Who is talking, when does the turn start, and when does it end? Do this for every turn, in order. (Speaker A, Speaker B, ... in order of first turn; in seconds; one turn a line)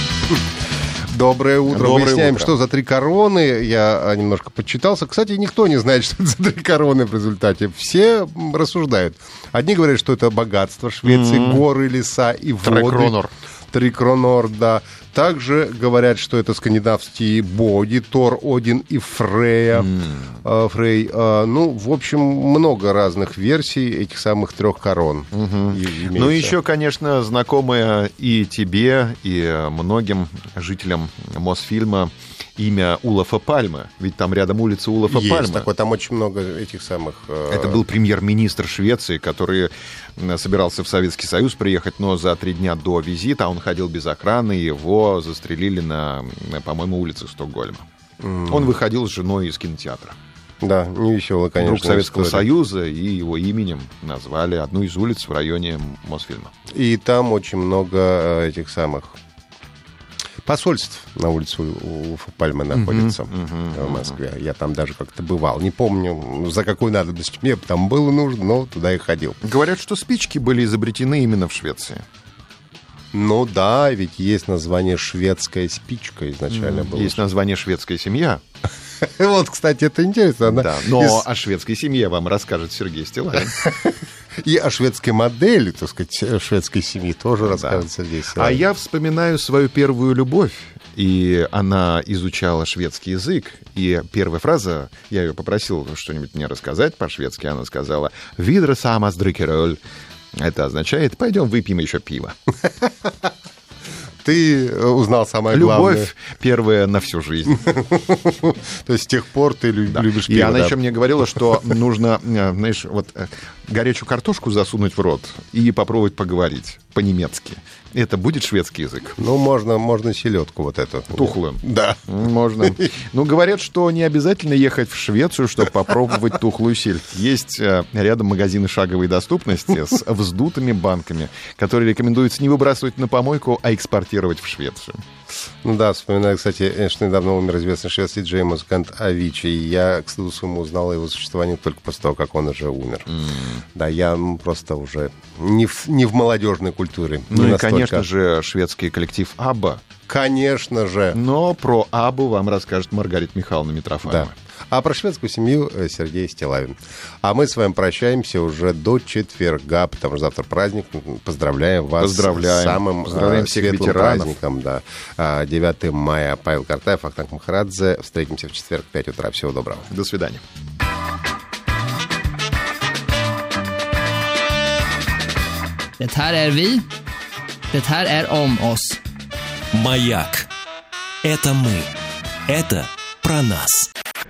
Speaker A: 1.1-13.2
Speaker B: 1.7-2.5
Speaker B: 11.0-11.6
Speaker B: 12.6-13.3
Speaker A: 13.7-26.6
Speaker B: 19.7-20.4
Speaker B: 25.3-35.7
Speaker A: 35.1-37.8
Speaker B: 37.5-47.8
Speaker A: 48.2-48.7
Speaker B: 48.5-50.1
Speaker A: 50.6-52.5
Speaker B: 51.6-56.5
Speaker A: 56.7-59.1
Speaker A: 60.4-69.4
Speaker B: 62.7-64.1
Speaker B: 69.4-72.0
Speaker A: 73.1-77.2
Speaker B: 76.5-78.4
Speaker A: 79.0-81.2
Speaker B: 80.4-83.8
Speaker A: 84.4-88.6
Speaker B: 87.4-99.8
Speaker B: 100.3-102.3
Speaker A: 104.2-106.1
Speaker B: 105.5-107.7
Speaker A: 107.5-110.8
Speaker B: 109.9-119.2
Speaker A: 119.2-122.0
Speaker B: 121.1-135.0
Speaker A: 135.6-143.1
Speaker B: 143.1-143.6
Speaker A: 143.7-148.1
Speaker B: 147.3-149.8
Speaker A: 150.1-151.2
Speaker B: 151.1-154.3
Speaker A: 154.1-169.9
Speaker B: 162.0-164.4
Speaker B: 169.9-170.4
Speaker C: 176.0-176.9
Speaker C: 177.7-179.0
Speaker D: 179.7-180.5
Speaker D: 181.2-181.9
Speaker D: 182.5-183.9